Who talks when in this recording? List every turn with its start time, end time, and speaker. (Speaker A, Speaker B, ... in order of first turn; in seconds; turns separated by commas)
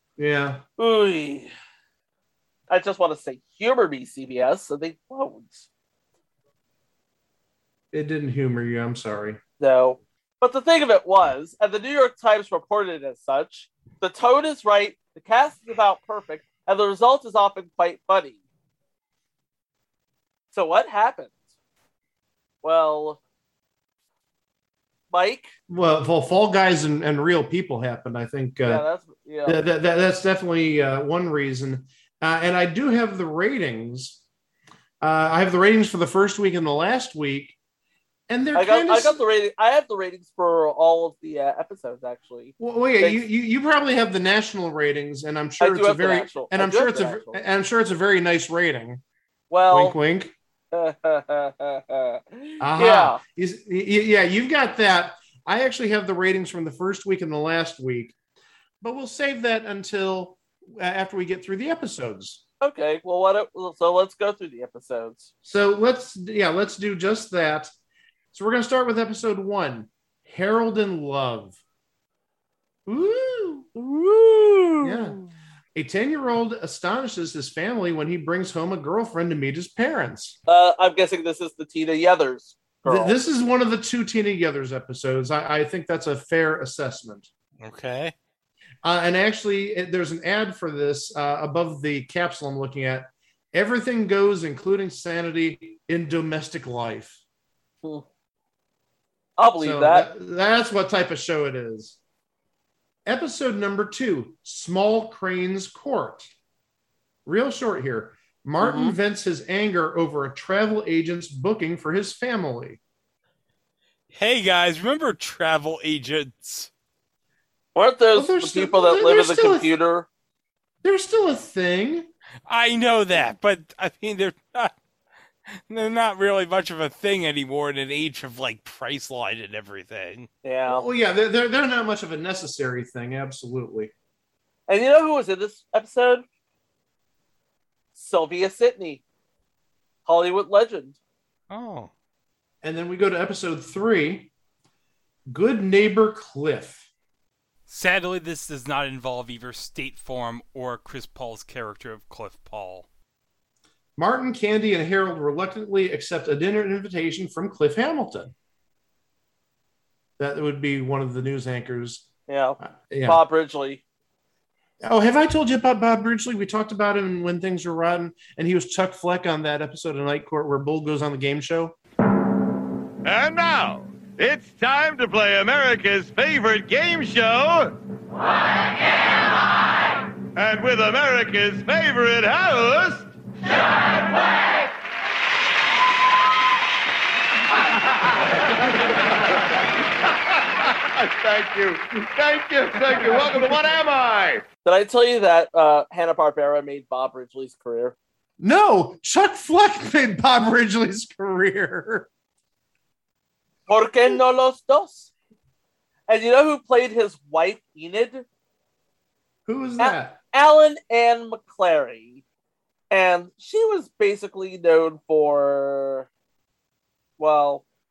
Speaker A: 0.2-0.6, Speaker B: 0.8-1.5, Speaker B: 2.7-5.7, Speaker A: 7.9-9.4, Speaker B: 9.6-18.4, Speaker B: 20.5-21.3, Speaker B: 22.6-23.2, Speaker B: 25.1-25.5, Speaker A: 25.7-28.8, Speaker B: 28.6-29.6, Speaker A: 29.4-34.2, Speaker A: 35.0-37.5, Speaker A: 38.3-39.2, Speaker B: 38.5-43.2, Speaker A: 42.6-49.0, Speaker B: 45.6-47.4, Speaker B: 49.5-50.0, Speaker A: 49.7-50.3, Speaker B: 50.7-53.2, Speaker A: 52.6-58.1, Speaker A: 58.8-62.4, Speaker B: 62.6-65.3, Speaker A: 65.4-67.7, Speaker A: 68.3-71.6, Speaker A: 72.8-73.7, Speaker B: 73.7-75.3, Speaker A: 74.8-75.2, Speaker A: 75.7-80.4, Speaker B: 80.5-83.2, Speaker A: 82.8-87.3, Speaker C: 87.6-88.1, Speaker A: 88.8-97.2, Speaker B: 99.4-100.1, Speaker A: 99.6-102.0, Speaker A: 103.0-106.3, Speaker A: 107.2-112.8, Speaker B: 108.6-109.0, Speaker C: 114.1-116.7, Speaker B: 117.7-120.1, Speaker A: 118.1-119.7, Speaker A: 120.8-122.1, Speaker C: 122.5-124.7, Speaker C: 125.7-130.3, Speaker B: 130.4-130.8, Speaker A: 130.7-133.9, Speaker B: 134.7-136.2, Speaker B: 137.9-139.0, Speaker B: 140.0-141.0, Speaker C: 141.5-141.9, Speaker A: 142.6-144.3, Speaker A: 145.3-146.9, Speaker C: 147.7-152.9, Speaker A: 154.0-158.3, Speaker A: 160.2-162.1, Speaker B: 162.3-163.8, Speaker A: 162.6-163.2, Speaker A: 164.8-171.7, Speaker D: 173.0-177.8, Speaker D: 180.3-183.1, Speaker D: 190.3-194.4, Speaker B: 194.6-197.9, Speaker A: 198.4-202.1, Speaker B: 203.7-205.1, Speaker B: 206.1-208.2, Speaker A: 209.4-210.2, Speaker B: 209.8-212.2, Speaker B: 212.9-216.1, Speaker B: 217.2-217.6